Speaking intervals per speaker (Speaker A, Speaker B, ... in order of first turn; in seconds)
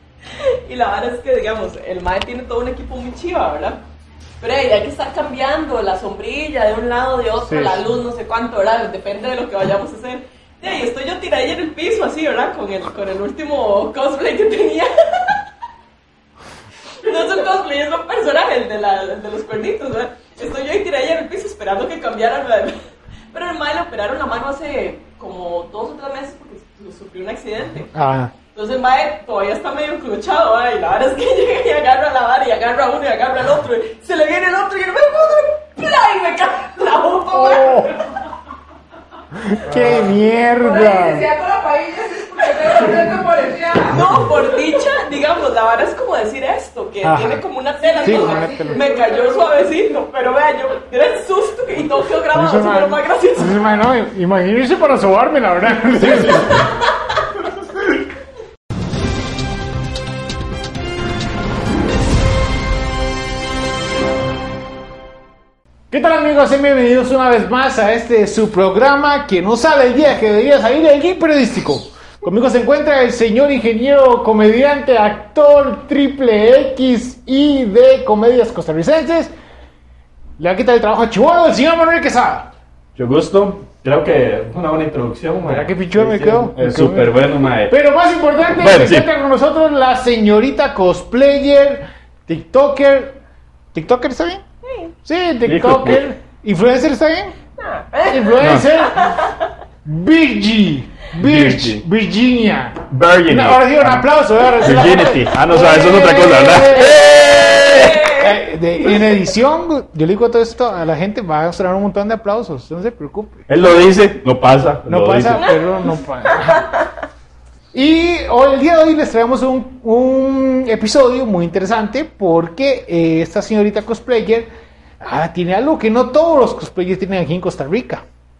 Speaker A: 0.3-3.8, 4.4-15.4, 17.0-22.8, 23.3-27.9, 28.5-38.0, 43.9-53.6, 94.6-94.9, 97.6-99.5, 105.5-108.4, 115.3-116.9
Speaker B: 7.4-7.8, 27.9-28.3, 37.3-38.0, 39.3-41.3, 47.0-47.4, 48.0-48.8, 52.3-56.7, 65.9-79.3, 80.4-82.5, 85.4-93.2, 93.7-94.4, 95.0-97.3, 98.1-99.2, 99.8-107.2, 107.8-113.4, 114.9-116.7, 117.7-124.5, 125.0-128.0
Speaker C: 39.7-40.0, 56.0-56.6, 83.0-87.8, 88.6-89.1, 95.5-96.0, 98.4-98.7, 101.2-101.8, 102.9-108.0, 113.5-115.5
Speaker D: 40.6-44.4, 47.8-49.7